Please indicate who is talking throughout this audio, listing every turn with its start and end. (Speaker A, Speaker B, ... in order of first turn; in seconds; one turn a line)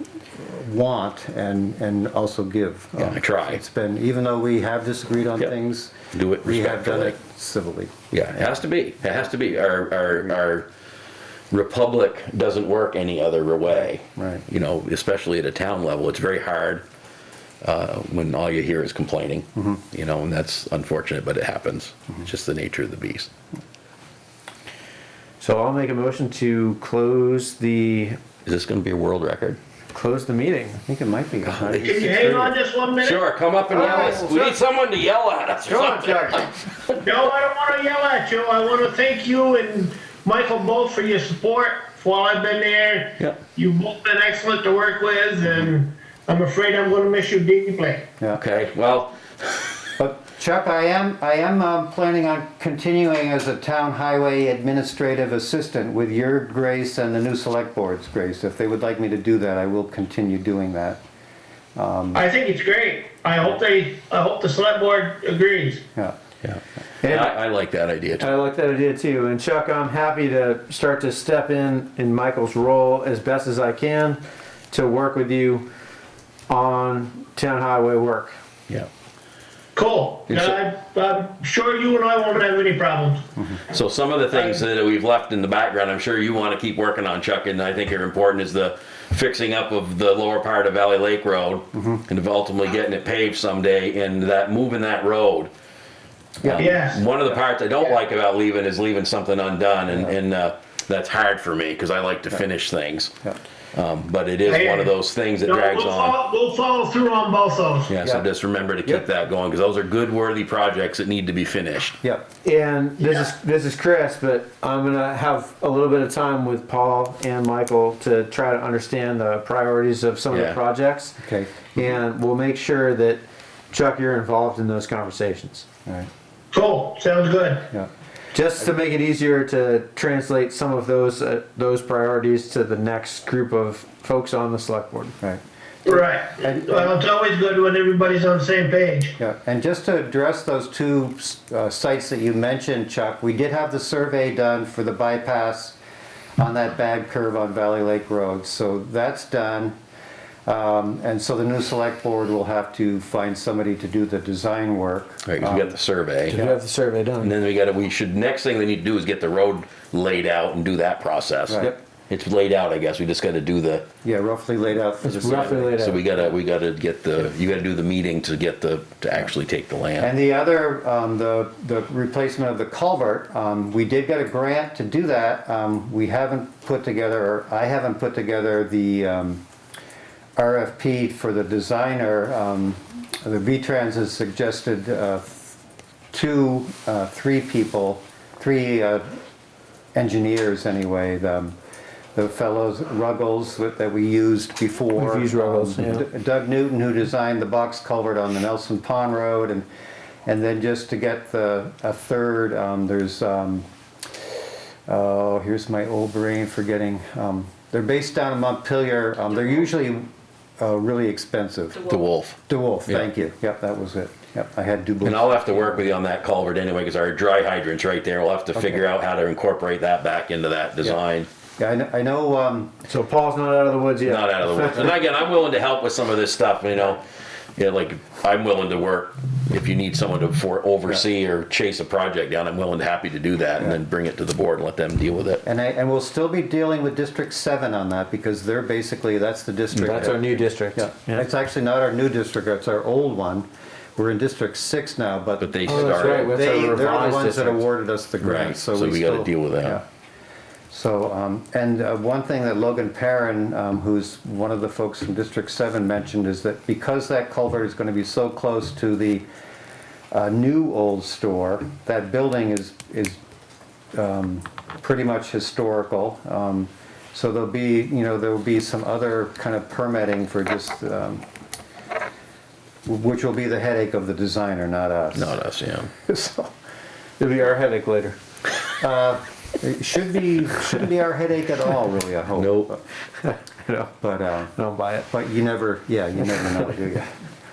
Speaker A: 0.3-8.5
Speaker B: 3.0-3.6
Speaker B: 6.1-7.2
Speaker B: 8.1-10.7
Speaker B: 11.5-16.8
Speaker A: 13.7-14.4
Speaker B: 17.6-23.3
Speaker A: 19.6-19.8
Speaker C: 25.4-28.2
Speaker B: 28.5-29.6
Speaker C: 29.9-30.8
Speaker A: 30.9-32.6
Speaker B: 31.4-32.0
Speaker D: 31.8-33.2
Speaker B: 33.0-37.0
Speaker C: 33.7-34.5
Speaker C: 35.6-36.5
Speaker D: 37.0-48.1
Speaker B: 48.4-49.2
Speaker A: 50.0-61.0
Speaker A: 61.8-62.2
Speaker D: 62.1-65.8
Speaker B: 66.4-68.3
Speaker C: 67.0-67.3
Speaker C: 68.2-74.2
Speaker C: 74.7-75.7
Speaker C: 76.5-78.4
Speaker D: 79.8-83.2
Speaker B: 80.3-80.6
Speaker B: 83.7-95.5
Speaker A: 91.7-92.0
Speaker A: 96.4-96.7
Speaker B: 96.5-103.1
Speaker D: 96.6-97.0
Speaker A: 99.9-100.2
Speaker B: 103.7-106.2
Speaker D: 104.5-107.9
Speaker B: 107.9-112.0
Speaker C: 112.4-121.2
Speaker D: 113.0-113.3
Speaker B: 120.3-120.6
Speaker A: 121.2-121.8
Speaker C: 121.8-125.7
Speaker D: 126.5-127.7
Speaker C: 128.3-135.2
Speaker A: 135.2-137.0
Speaker D: 135.9-139.2
Speaker A: 139.2-145.8
Speaker A: 146.4-149.8
Speaker A: 150.5-155.8
Speaker B: 155.2-156.4
Speaker C: 156.3-157.4
Speaker A: 156.3-156.6
Speaker B: 157.2-163.8
Speaker A: 161.5-161.7
Speaker A: 164.0-165.8
Speaker B: 165.1-170.1
Speaker C: 165.1-166.1
Speaker A: 170.0-179.4
Speaker A: 180.4-185.6
Speaker A: 186.1-189.2
Speaker A: 189.9-191.6
Speaker A: 192.2-199.7
Speaker C: 194.9-196.1
Speaker A: 200.3-203.7
Speaker A: 204.9-210.1
Speaker A: 210.6-211.9
Speaker B: 211.8-213.1
Speaker A: 212.5-215.9
Speaker B: 215.0-221.3
Speaker A: 218.6-218.9
Speaker A: 221.6-222.8
Speaker C: 222.9-225.0
Speaker B: 224.0-227.0
Speaker B: 227.6-235.4
Speaker A: 235.4-249.8
Speaker C: 239.7-241.2
Speaker B: 245.4-246.5
Speaker C: 245.7-247.7
Speaker B: 248.2-249.8
Speaker A: 250.7-259.2
Speaker A: 260.1-263.2
Speaker A: 263.9-271.2
Speaker A: 272.9-275.4
Speaker B: 275.1-275.9
Speaker A: 276.1-276.5
Speaker C: 277.2-278.2
Speaker A: 278.8-282.8
Speaker B: 282.4-282.7
Speaker C: 283.2-283.9
Speaker A: 284.0-284.5
Speaker C: 284.5-285.1
Speaker A: 285.1-287.1